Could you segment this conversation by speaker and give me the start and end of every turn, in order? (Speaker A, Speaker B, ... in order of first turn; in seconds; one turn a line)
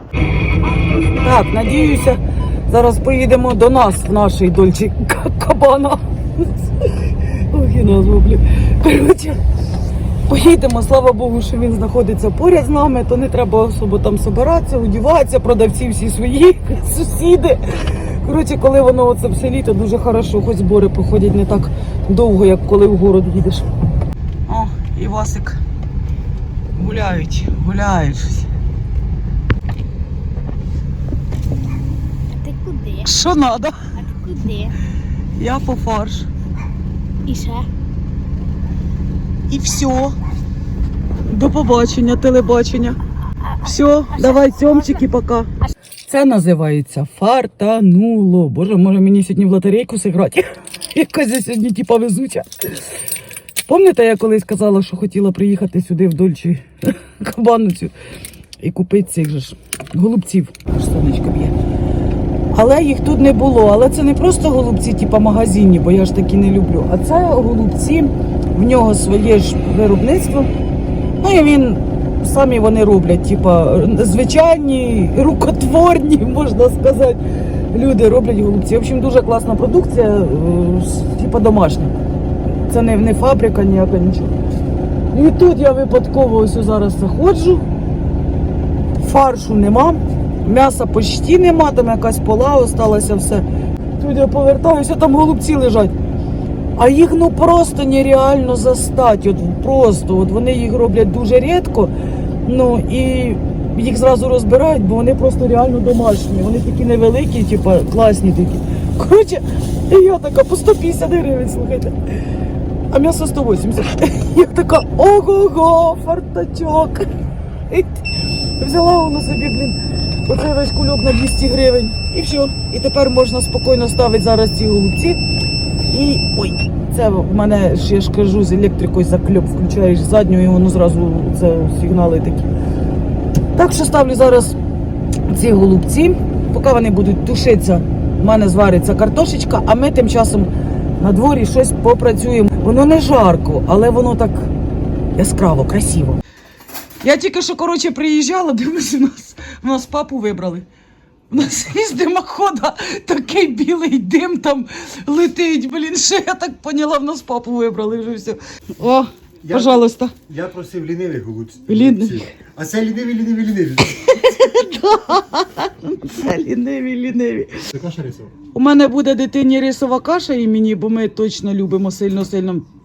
Speaker A: 1.0-9.4
Speaker A: 10.3-23.7
Speaker A: 24.5-25.6
Speaker A: 26.7-28.5
Speaker B: 32.3-33.1
Speaker A: 33.0-33.9
Speaker B: 34.0-34.8
Speaker A: 35.4-36.3
Speaker B: 37.2-37.7
Speaker A: 39.5-40.2
Speaker A: 41.3-45.5
Speaker A: 46.0-53.0
Speaker A: 53.6-57.9
Speaker A: 58.6-61.5
Speaker A: 62.5-70.5
Speaker A: 71.2-81.9
Speaker A: 82.5-84.3
Speaker A: 85.1-87.7
Speaker A: 89.0-95.9
Speaker A: 96.8-112.4
Speaker A: 112.9-117.1
Speaker A: 117.7-125.2
Speaker A: 125.9-132.5
Speaker A: 133.5-134.6
Speaker A: 135.2-144.5
Speaker A: 145.2-146.2
Speaker A: 147.0-150.7
Speaker A: 151.3-160.2
Speaker C: 159.4-164.0
Speaker A: 161.7-162.3
Speaker A: 163.8-167.7
Speaker C: 167.7-168.3
Speaker A: 168.5-172.7